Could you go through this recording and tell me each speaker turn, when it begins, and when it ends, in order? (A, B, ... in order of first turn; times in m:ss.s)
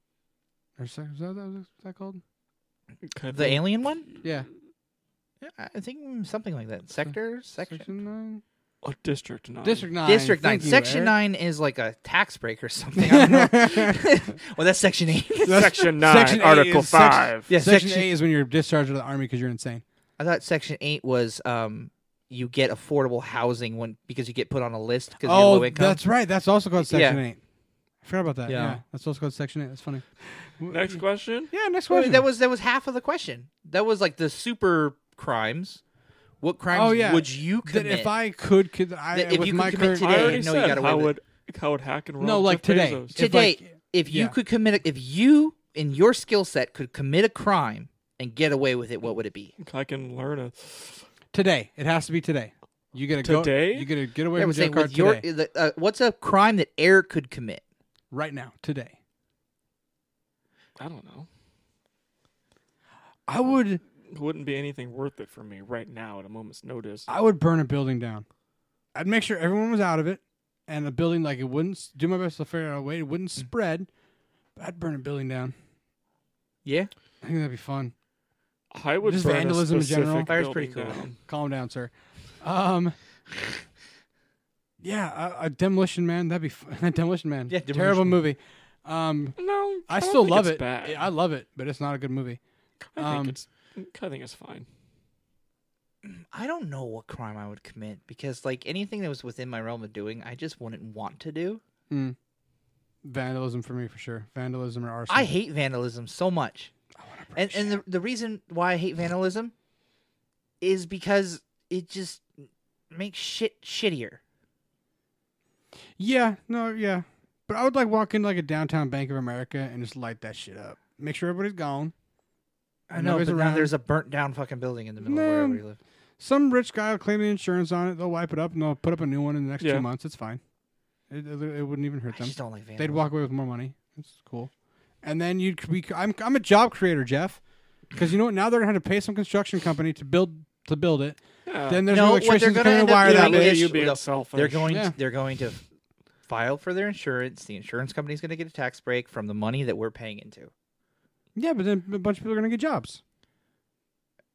0:00.8-0:02.2 A
0:03.0-0:04.2 B
0:03.3-0:04.0 C
0:05.4-0:07.9 C
0:07.7-0:08.4 A
0:08.8-0:09.9 B
0:09.6-0:11.1 A
0:10.0-0:15.9 C
0:13.0-0:14.0 A
0:15.4-0:17.5 B
0:15.4-0:19.8 A
0:17.5-0:18.1 C
0:20.2-0:26.0 C
0:25.2-0:27.4 A
0:26.8-0:27.2 C
0:28.0-0:30.0 A
0:28.5-0:28.8 C
0:30.6-0:31.0 A
0:30.7-0:31.5 B
0:31.5-0:32.2 A
0:31.9-0:35.8 C
0:36.4-0:38.1 C
0:36.7-0:40.5 A
0:39.1-0:41.1 C
0:39.9-0:43.2 B
0:42.2-0:44.4 A
0:43.1-0:49.5 C
0:49.6-0:51.0 B
0:51.3-0:55.2 A
0:53.2-0:53.9 B
0:54.3-0:57.6 C
0:58.1-0:58.9 A
1:00.8-1:01.3 B
1:03.3-1:03.8 A
1:04.1-1:07.1 B
1:07.1-1:08.2 A
1:08.9-1:13.9 A
1:14.6-1:15.5 A
1:16.6-1:16.9 C
1:17.2-1:17.9 A
1:18.7-1:21.2 B
1:19.0-1:20.3 A
1:20.3-1:21.1 C
1:21.3-1:23.0 A
1:24.8-1:32.4 A
1:27.5-1:28.2 C
1:29.4-1:31.0 B
1:32.9-1:34.7 B
1:33.0-1:33.4 A
1:36.0-1:41.6 C
1:41.9-1:42.2 A
1:43.0-1:45.3 A
1:45.1-1:46.7 C
1:47.0-1:47.8 A
1:47.3-1:49.5 C
1:50.6-1:52.3 C
1:52.9-1:54.2 C
1:56.0-2:01.9 A
2:02.9-2:05.8 C
2:02.9-2:03.7 A
2:05.0-2:05.6 A
2:06.2-2:10.4 A
2:09.6-2:09.9 B
2:11.1-2:14.5 A
2:12.1-2:13.0 C
2:15.0-2:17.4 A
2:17.9-2:23.7 A
2:21.4-2:21.8 B
2:21.9-2:25.6 C
2:22.9-2:24.7 B
2:24.7-2:24.9 A
2:26.3-2:30.5 C
2:31.3-2:33.0 A